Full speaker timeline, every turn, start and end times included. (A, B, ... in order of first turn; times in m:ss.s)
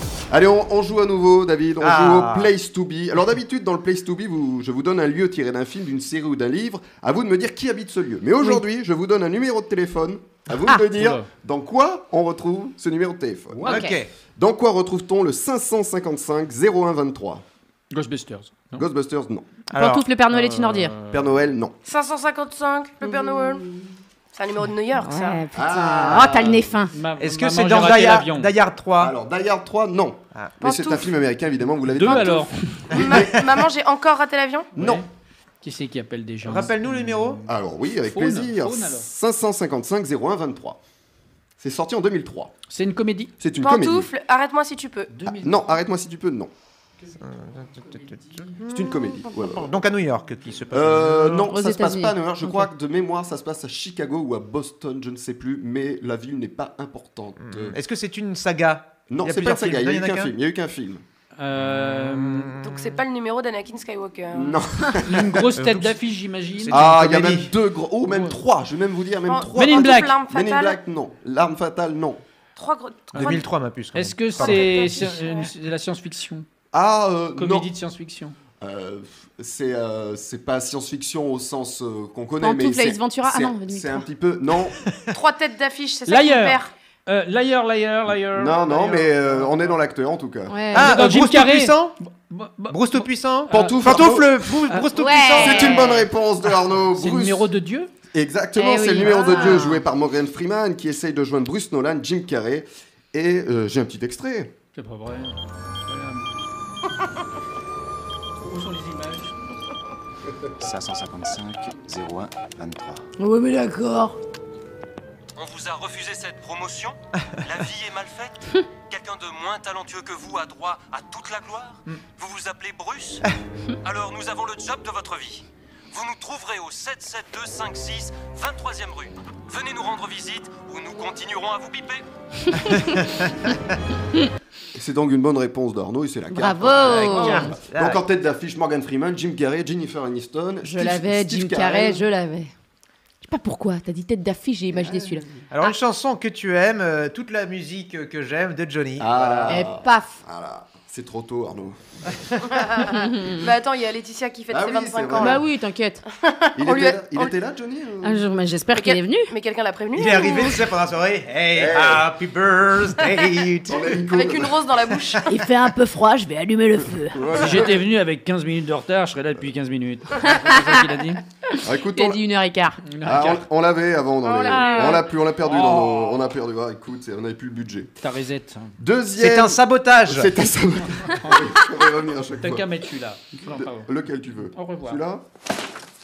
0:00.3-0:13.8 A
0:01.8-0:02.5 B
0:10.9-0:11.3 C
0:13.6-0:14.1 B
0:13.6-0:14.0 D
0:14.4-0:17.4 A
0:17.9-0:18.8 C
0:18.8-0:19.5 A
0:19.7-0:20.9 D
0:19.7-0:20.0 B
0:20.3-0:21.2 C
0:21.1-0:21.7 A
0:21.8-0:23.6 E
0:23.0-0:23.9 D
0:24.3-0:25.4 E
0:25.0-0:27.0 D
0:25.5-0:26.7 A
0:26.9-0:28.5 C
0:27.2-0:29.1 B
0:29.0-0:33.6 A
0:30.6-0:31.0 E
0:31.9-0:32.6 C
0:32.9-0:34.7 E
0:34.8-0:35.0 C
0:34.8-0:35.0 A
0:35.6-0:37.4 C
0:36.4-0:37.4 B
0:37.4-0:40.8 A
0:38.0-0:39.1 C
0:41.6-0:42.6 A
0:42.7-0:43.3 C
0:43.4-0:44.1 A
0:43.6-0:45.2 E
0:45.1-0:45.7 C
0:45.3-0:46.5 A
0:47.2-0:48.7 B
0:47.7-0:48.6 C
0:48.7-0:49.7 A
0:49.3-0:51.4 B
0:50.7-0:57.8 A
0:51.3-0:52.7 D
0:57.4-1:00.3 B
0:59.1-1:01.0 A
1:01.4-1:02.5 C
1:02.6-1:04.6 E
1:04.3-1:05.6 A
1:05.1-1:06.9 C
1:05.6-1:05.9 B
1:06.6-1:07.5 B
1:06.7-1:12.2 A
1:08.0-1:08.4 C
1:09.3-1:10.8 E
1:09.5-1:10.1 C
1:12.6-1:13.5 E
1:13.2-1:14.6 B
1:13.9-1:16.4 C
1:14.3-1:15.5 E
1:16.7-1:17.7 A
1:17.4-1:18.3 C
1:18.6-1:24.8 A
1:22.4-1:24.0 D
1:25.1-1:26.7 E
1:26.1-1:29.8 C
1:28.2-1:30.8 A
1:30.5-1:31.0 D
1:30.7-1:35.2 C
1:30.8-1:32.0 B
1:32.7-1:35.9 B
1:33.5-1:34.4 A
1:35.0-1:36.0 D
1:35.3-1:37.4 A
1:36.9-1:37.9 C
1:38.1-1:44.5 A
1:38.6-1:39.8 D
1:44.8-1:46.2 C
1:48.4-1:49.3 C
1:50.6-1:53.0 F
1:53.2-1:54.2 D
1:55.4-1:56.9 G
1:57.6-1:58.3 G
1:58.9-2:03.2 G
2:03.9-2:05.0 G
2:05.9-2:12.0 G
2:14.8-2:22.0 A
2:16.3-2:17.5 D
2:16.8-2:18.0 B
2:20.6-2:22.5 D
2:23.2-2:25.2 D
2:24.7-2:25.2 A
2:25.5-2:29.7 B
2:29.0-2:31.8 A
2:29.5-2:30.2 D
2:32.5-2:35.4 E
2:32.9-2:33.5 D
2:34.5-2:35.4 A
2:35.2-2:36.0 D
2:36.2-2:37.3 E
2:36.6-2:38.2 A
2:38.0-2:39.3 D
2:38.7-2:40.6 E
2:39.9-2:43.9 B
2:41.5-2:42.1 A
2:43.7-2:44.6 A
2:43.9-2:45.3 E
2:45.3-2:47.2 D
2:47.1-2:47.9 A
2:47.3-2:51.2 C
2:51.6-2:52.2 A
2:51.9-2:52.8 D
2:52.9-2:53.5 C
2:53.0-2:57.9 A
2:54.2-2:55.0 E
2:54.5-2:55.0 D
2:55.4-2:56.2 C
2:58.0-2:58.7 C
2:58.8-3:02.7 A
2:59.2-3:00.3 B
3:02.4-3:03.9 C
3:03.5-3:05.2 A
3:04.5-3:05.0 C